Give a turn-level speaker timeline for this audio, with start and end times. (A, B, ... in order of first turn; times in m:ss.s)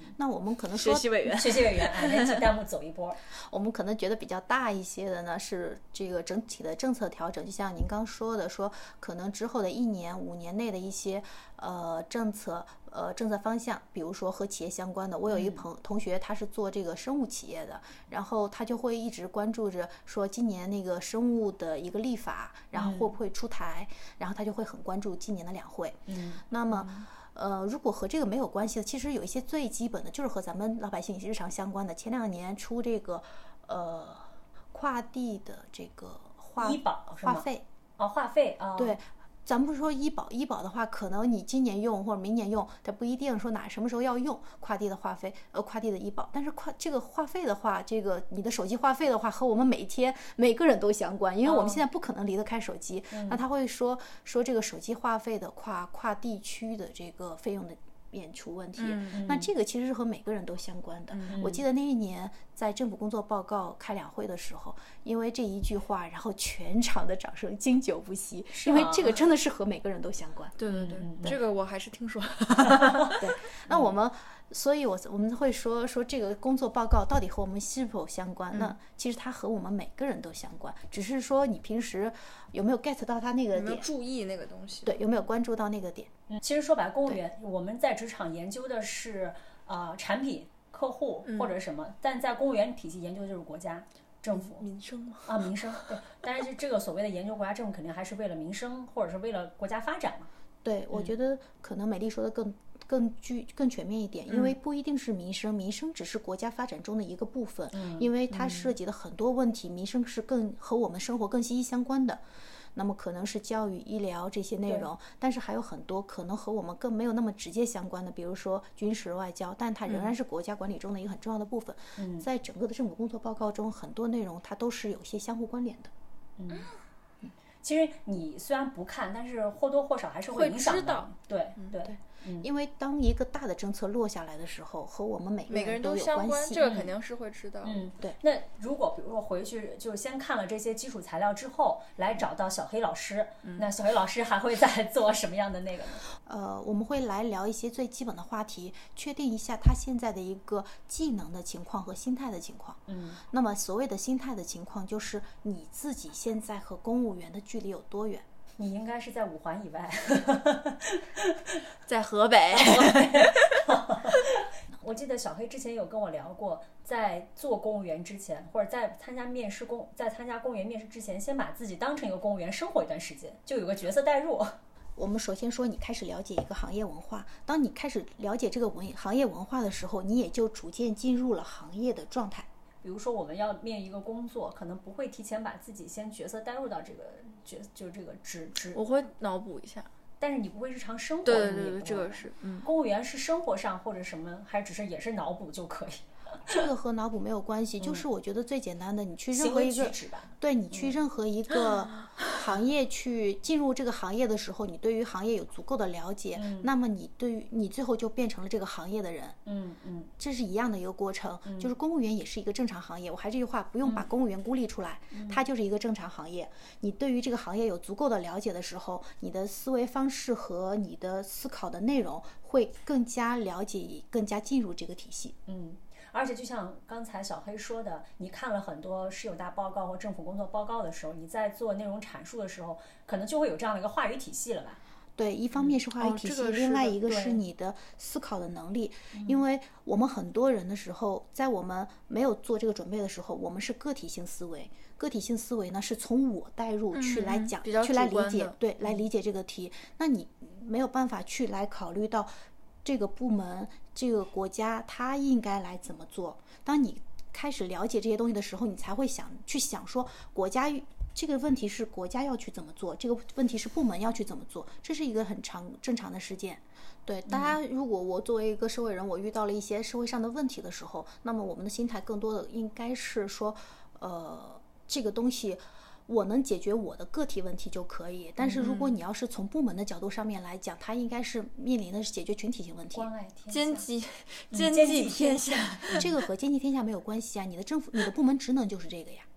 0:00.2-0:01.1 A
0:00.7-0:02.4 B
0:01.2-0:03.2 C
0:03.4-0:37.6 A
0:15.3-0:15.6 C
0:22.7-0:23.1 C
0:26.1-0:26.4 C
0:26.7-0:27.0 B
0:36.6-0:37.4 C
0:38.0-0:39.0 C
0:38.8-1:10.5 A
0:51.4-0:51.8 C
0:53.1-0:53.4 C
0:58.8-0:59.2 B
0:59.1-0:59.5 C
1:01.1-1:01.6 B
1:01.3-1:01.6 C
1:08.5-1:09.2 C
1:10.6-1:13.2 B
1:10.7-1:11.4 C
1:12.8-1:13.1 C
1:13.2-1:23.8 A
1:23.5-1:25.0 B
1:24.8-1:26.1 A
1:26.3-1:34.6 C
1:31.3-1:31.5 B
1:34.3-1:35.8 B
1:35.2-1:40.3 C
1:40.6-1:52.2 A
1:47.7-1:48.1 C
1:52.7-2:05.9 A
2:02.0-2:02.2 C
2:06.4-2:06.7 C
2:07.6-2:12.5 C
2:10.3-2:11.1 B
2:11.8-2:16.6 A
2:15.5-2:17.8 B
2:16.6-2:16.9 C
2:17.6-2:26.0 C
2:26.2-2:38.2 A
2:32.9-2:33.2 C
2:38.6-2:41.6 C
2:41.8-2:43.7 B
2:42.5-2:54.6 C
2:55.0-3:02.5 A
3:02.8-3:08.8 C
3:08.7-3:09.9 B
3:10.2-3:16.6 C
3:11.2-3:12.7 B
3:16.5-3:29.4 A
3:19.3-3:20.9 C
3:26.3-3:26.7 C
3:29.4-3:30.1 C
3:30.2-3:45.3 A
3:31.4-3:31.7 C
3:35.1-3:35.4 C
3:45.5-3:54.8 C
3:55.2-4:12.3 A
3:56.0-3:57.0 B
3:57.0-3:57.4 C
3:59.1-3:59.4 C
4:06.9-4:08.6 B
4:12.8-4:43.1 A
4:27.3-4:27.5 C
4:38.4-4:39.0 C
4:42.9-4:43.9 C
4:43.5-4:46.1 B
4:44.5-4:46.0 C
4:45.9-4:49.3 A